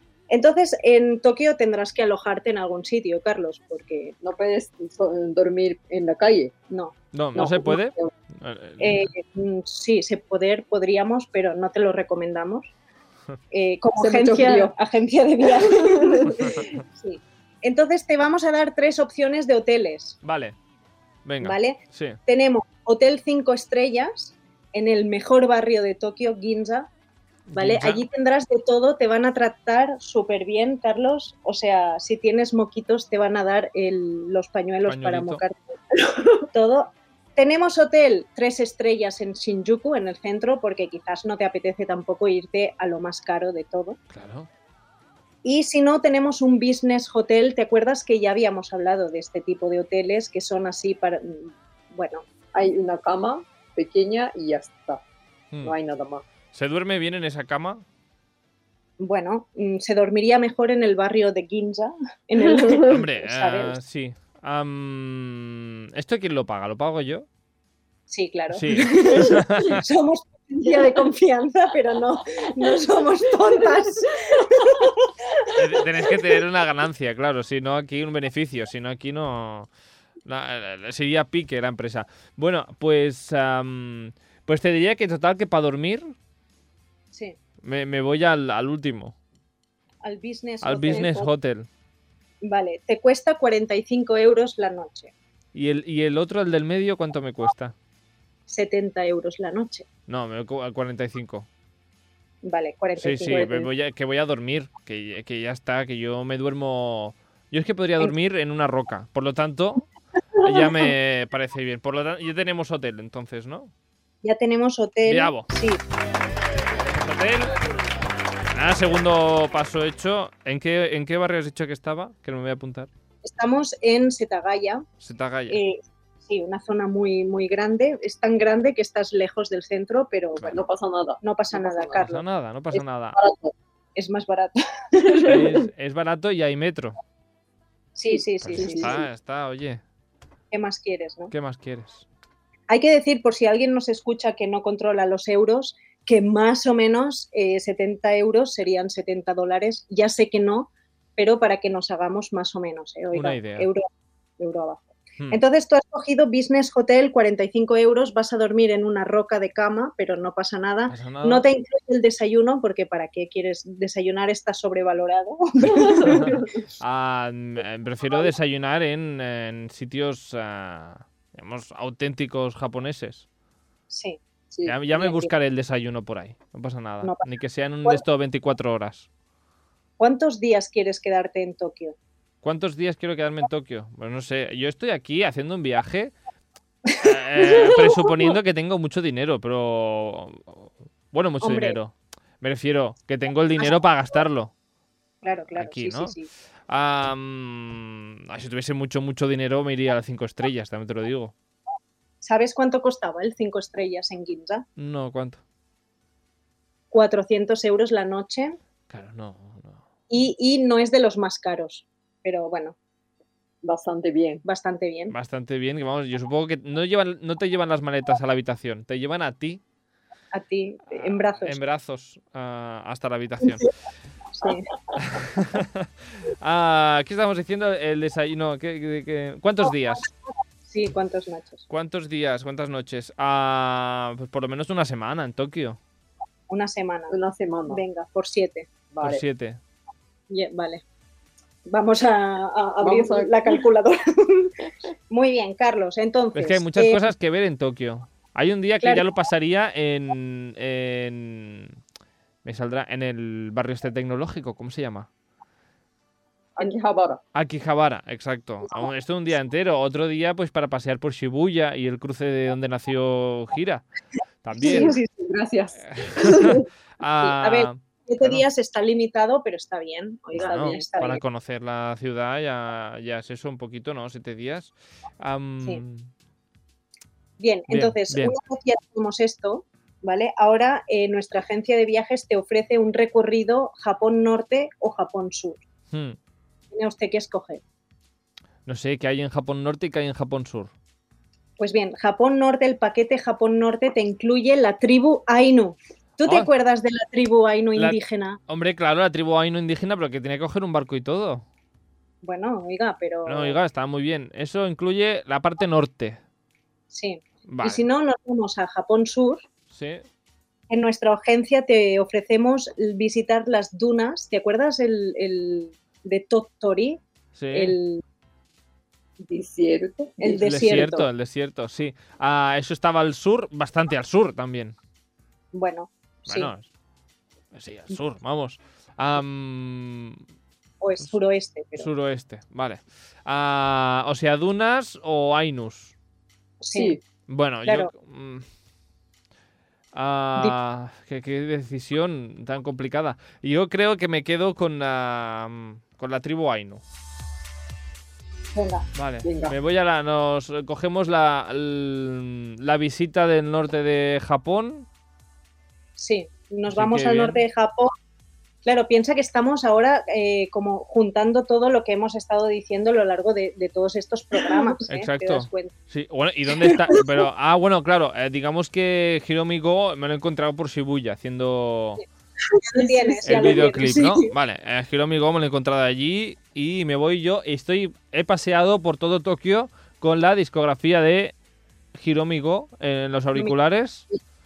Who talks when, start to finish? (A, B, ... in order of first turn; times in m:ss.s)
0:00.3-0:04.2 A
0:04.2-0:06.5 B
0:06.7-0:07.5 A
0:07.1-0:09.1 C
0:07.3-0:08.1 B
0:08.8-0:12.7 A
0:13.5-0:20.2 A
0:14.0-0:14.7 B
0:15.4-0:16.6 B
0:20.2-0:20.5 C
0:21.2-0:22.2 C
0:21.4-0:26.9 A
0:27.5-0:28.0 C
0:27.6-0:35.7 A
0:34.8-0:35.4 C
0:36.3-0:44.0 A
0:44.1-0:44.5 C
0:45.4-0:52.3 A
0:52.5-0:55.0 B
0:55.6-0:56.2 B
0:56.5-0:57.8 C
0:59.0-1:03.8 A
1:02.4-1:02.9 B
1:02.8-1:07.2 C
1:08.1-1:16.1 A
1:08.5-1:09.8 C
1:10.6-1:11.0 B
1:14.3-1:14.8 B
1:15.5-1:19.7 C
1:20.2-1:26.1 C
1:27.1-1:27.4 A
1:27.6-1:29.1 C
1:30.0-1:31.3 A
1:30.6-1:31.7 C
1:32.4-1:35.1 A
1:35.5-1:37.7 C
1:38.5-1:39.8 A
1:40.1-1:41.5 C
1:42.4-1:43.5 A
1:43.0-1:49.8 C
1:43.2-1:43.7 B
1:50.4-1:53.7 C
1:54.2-1:55.8 A
1:55.0-1:55.5 C
1:56.8-1:57.5 C
1:58.5-2:02.9 C
2:03.2-2:04.8 A
2:05.0-2:05.6 C
2:05.5-2:10.6 A
2:10.4-2:12.1 B
2:11.2-2:12.2 A
2:12.0-2:13.2 C
2:12.7-2:13.5 B
2:13.9-2:15.4 A
2:15.0-2:15.5 B
2:15.2-2:17.0 C
2:17.9-2:19.0 A
2:18.1-2:19.0 B
2:18.4-2:19.8 C
2:20.5-2:21.3 A
2:21.3-2:22.0 C
2:22.7-2:33.8 A
2:33.1-2:33.7 C
2:34.4-2:46.4 A
2:40.9-2:41.4 C
2:45.6-2:46.6 B
2:46.0-2:53.2 C
2:53.9-2:54.2 A
2:54.6-2:59.1 C
2:54.9-2:55.3 A
3:00.0-3:02.0 A
3:02.4-3:06.1 C
3:06.9-3:07.9 A
3:07.0-3:14.5 C
3:11.4-3:11.8 A
3:15.2-3:16.3 A
3:15.5-3:16.1 C
3:16.7-3:21.3 C
3:22.2-3:24.6 A
3:24.8-3:25.4 C
3:26.9-3:28.6 A
3:28.9-3:29.8 C
3:30.1-3:32.8 A
3:33.6-3:34.4 B
3:34.4-3:35.1 A
3:35.1-3:39.6 C
3:40.3-3:41.6 A
3:40.9-3:43.7 C
3:44.3-3:44.7 A
3:44.9-3:50.1 C
3:50.7-3:51.6 A
3:51.7-3:55.8 C
3:56.5-3:57.2 A
3:57.1-3:57.8 B
3:57.7-3:58.7 A
3:58.9-3:59.2 B
3:59.0-3:59.6 C
4:00.3-4:00.8 A
4:01.6-4:07.1 A
4:02.8-4:03.6 B
4:06.3-4:11.8 C
4:12.4-4:15.1 C
4:16.6-4:17.2 B
4:17.3-4:23.8 C
4:24.4-4:25.0 C
4:24.6-4:26.6 B
4:24.6-4:25.1 A
4:25.8-4:28.4 C
4:27.2-4:31.2 A
4:30.4-4:36.1 C
4:30.4-4:30.9 B
4:37.4-4:45.6 A
4:37.7-4:38.3 C
4:45.9-4:46.2 C
4:46.7-4:47.6 A
4:48.6-4:50.7 C
4:51.6-4:58.4 A
4:56.2-4:56.5 C
4:57.8-5:01.4 C
5:02.2-5:03.6 A
5:03.2-5:06.2 C
5:06.9-5:09.4 A
5:07.5-5:07.8 C
5:09.7-5:10.0 C
5:10.7-5:17.0 A
5:17.3-5:17.8 C
5:17.5-5:18.0 A
5:19.2-5:20.6 B
5:20.2-5:21.1 A
5:20.4-5:24.8 C
5:25.5-5:26.5 A
5:26.3-5:26.7 C
5:27.5-5:30.2 C
5:30.8-5:31.9 A
5:31.7-5:35.9 C
5:36.6-5:37.0 A
5:36.7-5:37.0 B
5:37.3-5:38.4 C
5:39.9-5:46.8 C
5:48.5-5:48.9 A
5:48.9-5:54.9 C
5:49.2-5:49.6 B
5:56.0-5:57.9 A
5:56.7-5:57.4 C
5:58.6-6:05.7 A
6:04.9-6:12.0 C
6:06.6-6:07.0 A
6:12.7-6:14.3 A
6:12.7-6:13.7 B
6:13.2-6:21.3 C
6:21.9-6:24.0 C